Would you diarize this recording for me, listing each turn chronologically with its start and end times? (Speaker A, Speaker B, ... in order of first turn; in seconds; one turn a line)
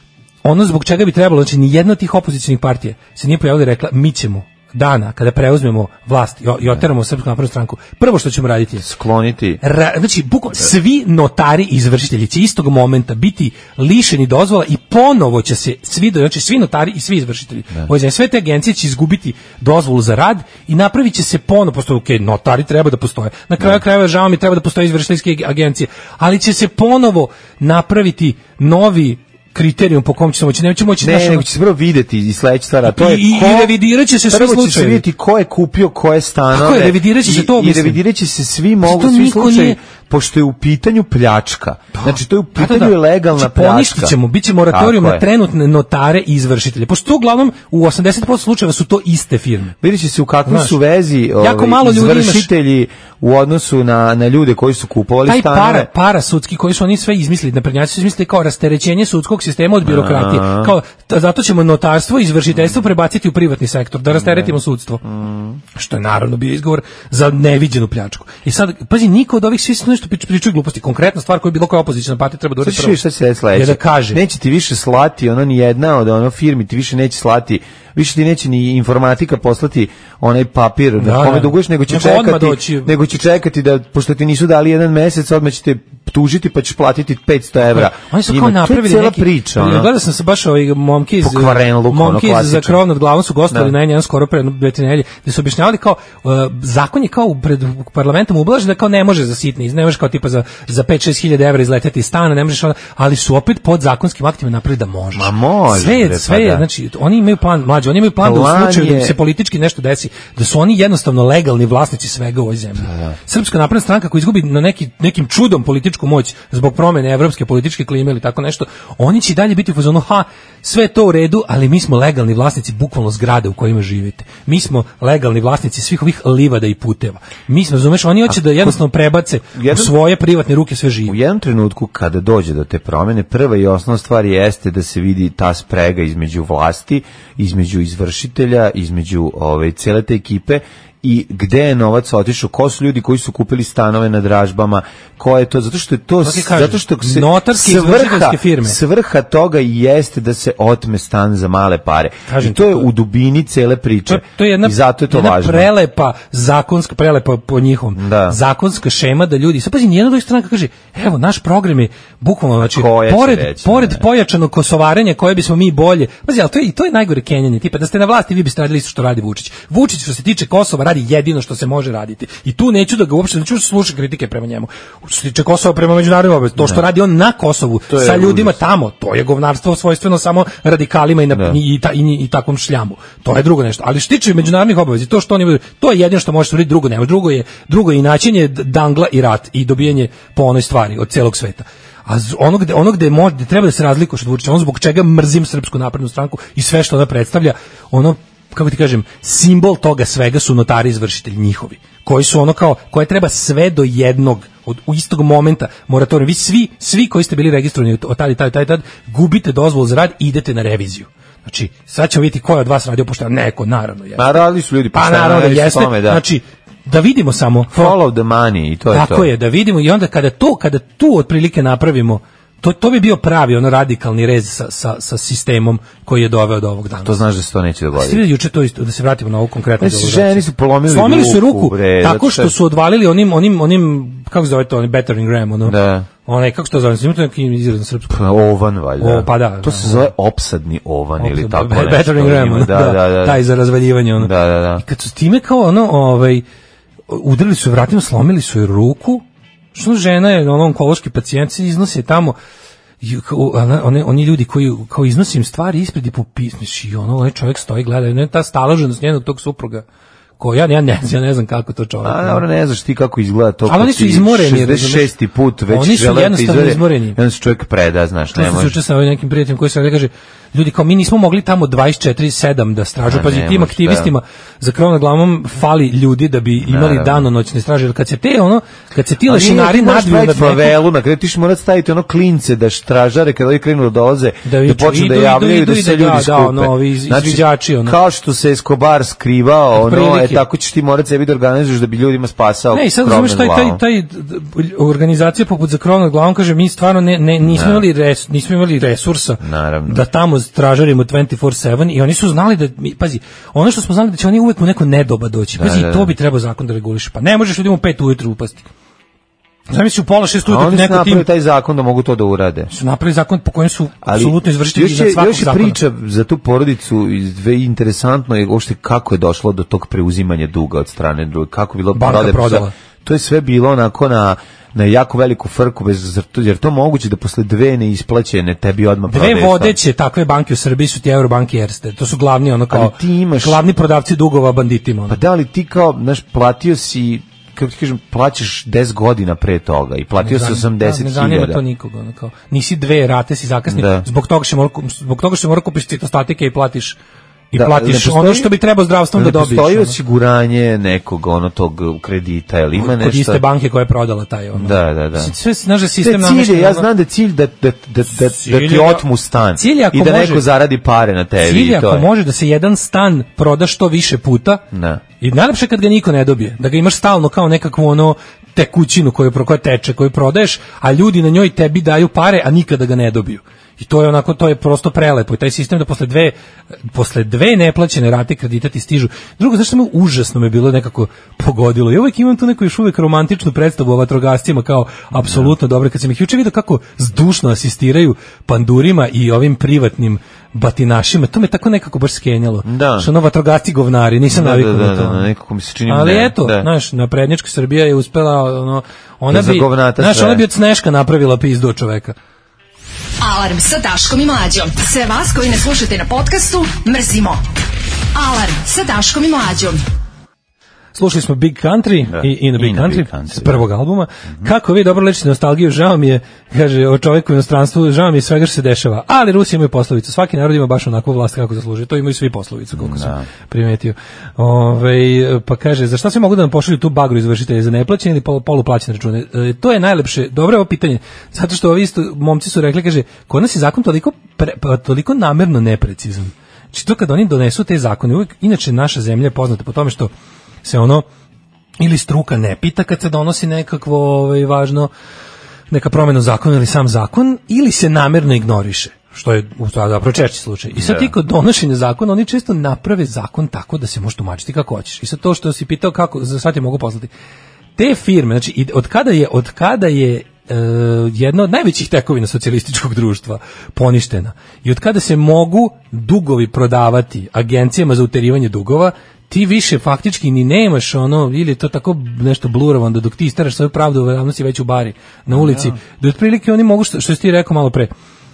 Speaker A: 0.4-8.8
Speaker B: 8.8-9.6
Speaker A: 9.6-31.5
Speaker B: 31.0-44.2
Speaker A: 32.8-35.0
Speaker A: 36.5-38.0
Speaker A: 38.8-39.8
Speaker A: 41.9-49.7
Speaker B: 44.7-45.2
Speaker B: 49.8-55.9
Speaker A: 50.5-50.7
Speaker A: 51.4-52.5
Speaker A: 55.2-65.0
Speaker B: 59.8-60.7
Speaker B: 64.1-65.6
Speaker A: 65.7-73.0
Speaker B: 72.6-89.9
Speaker A: 73.5-74.2
Speaker A: 81.0-82.9
Speaker A: 87.7-131.1
Speaker B: 91.2-92.8
Speaker B: 105.1-106.7
Speaker B: 108.2-109.2
Speaker B: 112.8-113.2
Speaker B: 128.3-128.8
Speaker B: 129.6-129.9
Speaker B: 131.1-155.7
Speaker A: 146.2-148.8
Speaker A: 152.3-152.9
Speaker A: 154.1-214.3
Speaker B: 157.9-158.4
Speaker B: 162.6-164.0
Speaker B: 177.9-178.6
Speaker B: 181.3-181.6
Speaker B: 214.2-216.2
Speaker A: 214.9-218.0
Speaker B: 217.7-219.3
Speaker A: 218.9-227.2
Speaker B: 227.0-228.2
Speaker A: 227.9-238.2
Speaker B: 229.8-232.5
Speaker B: 235.6-236.1
Speaker B: 238.1-243.4
Speaker A: 239.0-240.1
Speaker A: 241.2-246.4
Speaker B: 244.2-244.8
Speaker A: 247.1-252.3
Speaker A: 253.0-259.8
Speaker A: 260.4-262.4
Speaker B: 262.0-268.8
Speaker A: 263.6-265.1
Speaker A: 265.7-267.2
Speaker A: 268.3-280.8
Speaker B: 273.1-274.1
Speaker B: 276.6-277.3
Speaker B: 279.2-293.8
Speaker A: 284.4-288.0
Speaker A: 289.7-290.4
Speaker A: 292.7-308.7
Speaker B: 297.4-297.9
Speaker B: 299.4-300.0
Speaker B: 305.6-306.1
Speaker A: 309.7-311.2
Speaker B: 310.4-312.7
Speaker A: 312.7-315.8
Speaker B: 314.0-329.8
Speaker A: 321.9-322.7
Speaker A: 329.1-335.2
Speaker B: 332.7-333.6
Speaker B: 335.1-341.6
Speaker A: 340.2-347.0
Speaker B: 343.7-344.1
Speaker A: 347.5-350.0
Speaker B: 347.5-348.5
Speaker B: 349.1-353.4
Speaker A: 352.8-356.9
Speaker B: 354.6-355.3
Speaker B: 356.0-362.1
Speaker A: 358.2-360.4
Speaker A: 361.4-364.6
Speaker B: 364.7-365.0
Speaker A: 365.2-376.3
Speaker A: 376.9-395.3
Speaker B: 385.1-385.5
Speaker B: 392.6-393.1
Speaker B: 394.3-396.7
Speaker A: 395.9-402.1
Speaker B: 399.3-400.4
Speaker C: 403.2-407.4
Speaker C: 408.1-409.8
Speaker A: 410.9-440.1
Speaker B: 412.1-413.6
Speaker B: 422.7-423.2
Speaker A: 440.6-441.0
Speaker A: 441.8-444.9
Speaker A: 445.7-457.1
Speaker B: 450.7-451.1
Speaker A: 457.8-477.9
Speaker B: 475.3-475.8